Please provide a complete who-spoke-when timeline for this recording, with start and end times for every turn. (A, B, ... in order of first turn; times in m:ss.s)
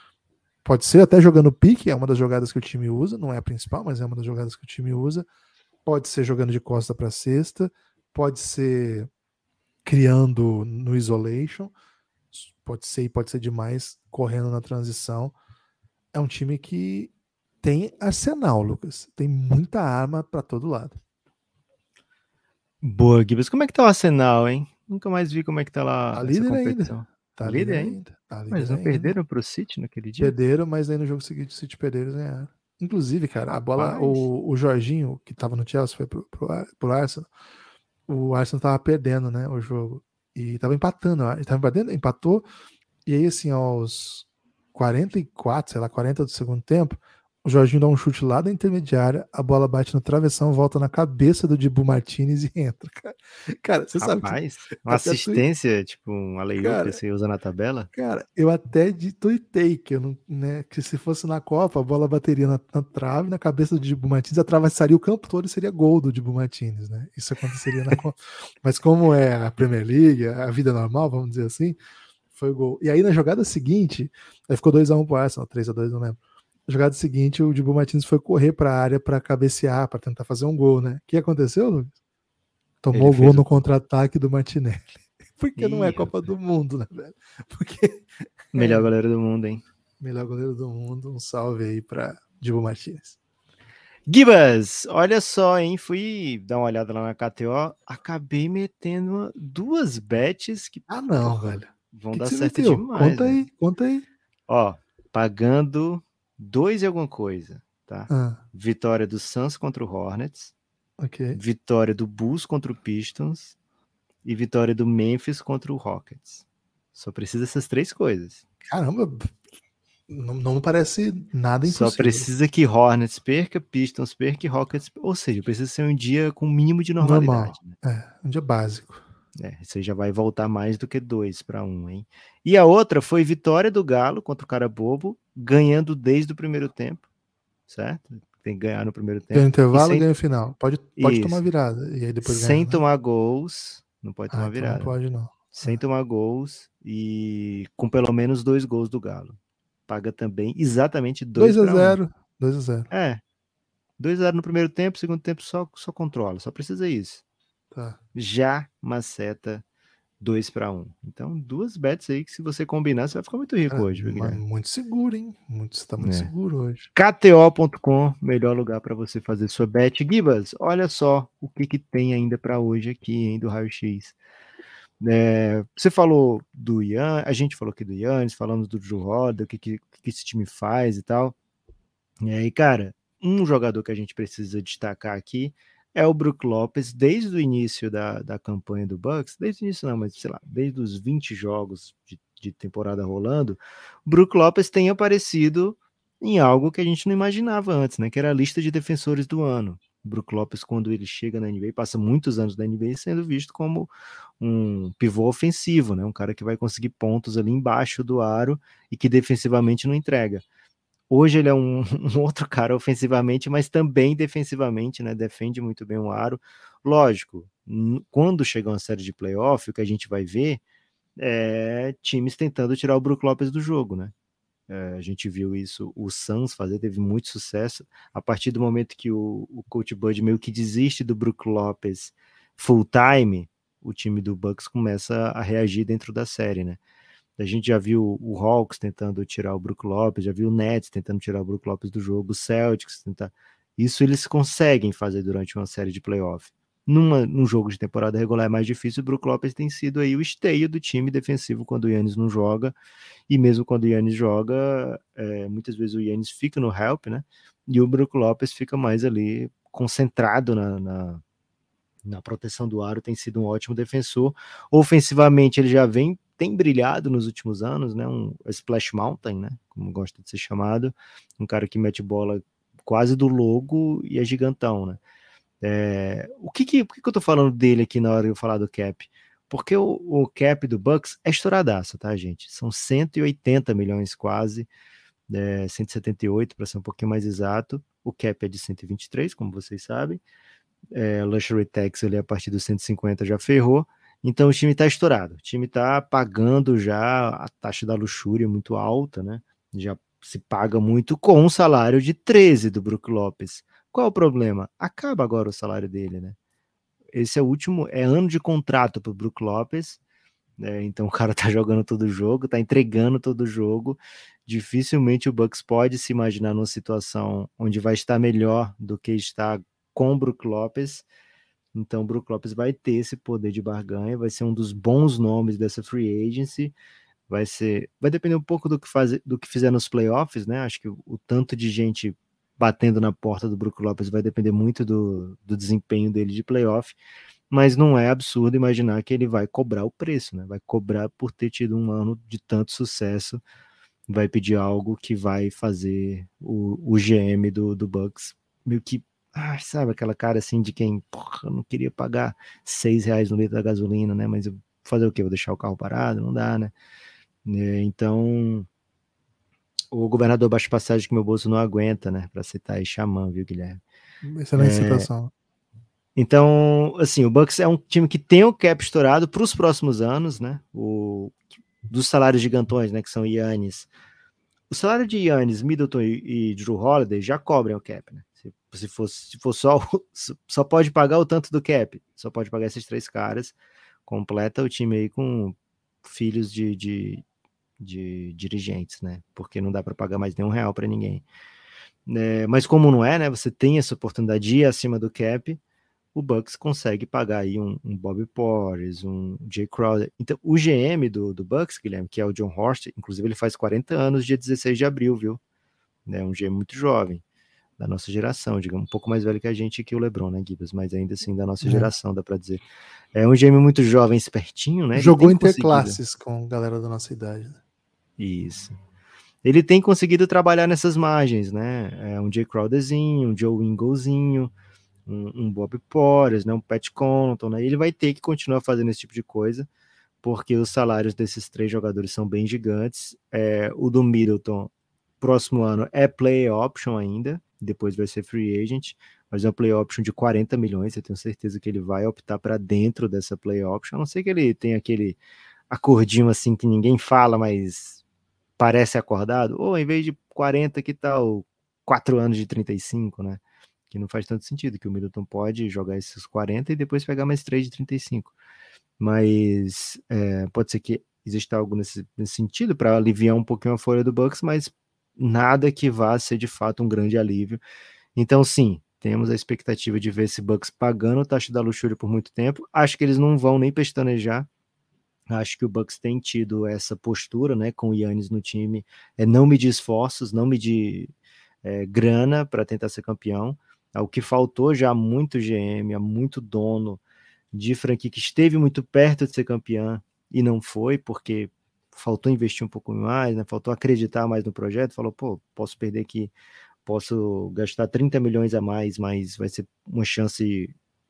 0:00.6-0:05.2 A
0:05.8-0:09.1 A
0:09.8-0:11.7 A
0:12.3-0:15.3 A
0:16.1-0:21.0 A
0:22.8-0:28.0 B
0:26.1-0:29.2 A
0:28.5-0:30.3 B
0:30.2-0:37.3 A
0:33.5-0:34.3 B
0:38.1-0:42.4 A
0:43.0-0:55.4 A
0:53.9-0:57.9 B
0:56.6-0:57.0 A
0:57.9-1:11.8 A
1:12.3-1:21.9 A
1:22.8-1:28.9 A
1:22.9-1:23.6 B
1:25.6-1:26.2 B
1:28.5-1:29.6 B
1:30.0-1:33.2 A
1:34.1-1:43.4 B
1:40.9-1:44.0 A
1:44.5-1:50.5 B
1:48.1-1:48.4 A
1:51.0-1:51.4 A
1:51.3-1:53.5 B
1:54.2-1:58.4 B
1:58.7-1:59.4 A
2:00.1-2:02.3 A
2:01.6-2:07.8 B
2:07.0-2:09.0 A
2:09.4-2:17.0 B
2:17.7-2:20.0 B
2:19.3-2:22.8 A
2:21.0-2:21.4 B
2:22.2-2:24.9 B
2:24.3-2:25.8 A
2:25.5-2:29.4 B
2:29.9-2:32.0 B
2:31.4-2:32.9 A
2:32.9-2:33.2 B
2:34.0-2:37.2 B
2:37.7-2:38.0 A
2:38.1-2:39.6 B
2:40.2-2:44.4 B
2:43.7-2:46.8 A
2:46.0-2:46.3 B
2:46.9-2:54.2 B
2:55.0-3:01.3 B
3:02.2-3:30.4 B
3:31.1-3:40.6 B
3:41.2-3:44.1 B
3:44.7-3:56.8 B
3:57.4-4:12.8 B
4:13.3-4:21.2 B
4:22.0-4:35.0 B
4:35.6-4:44.7 B
4:45.3-4:50.2 B
4:50.9-5:06.4 B
5:07.1-5:10.0 B
5:10.6-5:21.0 B
5:21.7-5:26.7 B
5:27.3-5:37.0 B
5:37.5-5:43.4 B
5:44.1-5:56.7 B
5:57.4-5:58.7 B
5:59.9-6:03.8 B
6:04.2-6:05.3 A
6:04.6-6:05.1 B
6:06.2-6:13.9 B
6:14.7-6:23.5 B
6:24.0-6:27.2 B
6:27.8-6:31.2 B
6:32.1-6:35.6 B
6:36.1-6:45.4 B
6:46.1-6:47.2 B
6:47.8-6:52.6 B
6:51.6-6:51.9 A
6:53.1-6:56.0 B
6:54.9-6:57.6 A
6:58.2-6:58.8 B
6:59.4-7:04.5 B
7:05.0-7:09.7 B
7:10.2-7:25.2 B
7:25.7-7:28.0 B
7:28.6-7:38.3 B
7:39.0-7:47.6 B
7:48.2-7:54.5 B
7:55.3-8:01.1 B
8:01.6-8:07.0 B
8:07.5-8:16.3 B
8:16.8-8:20.7 B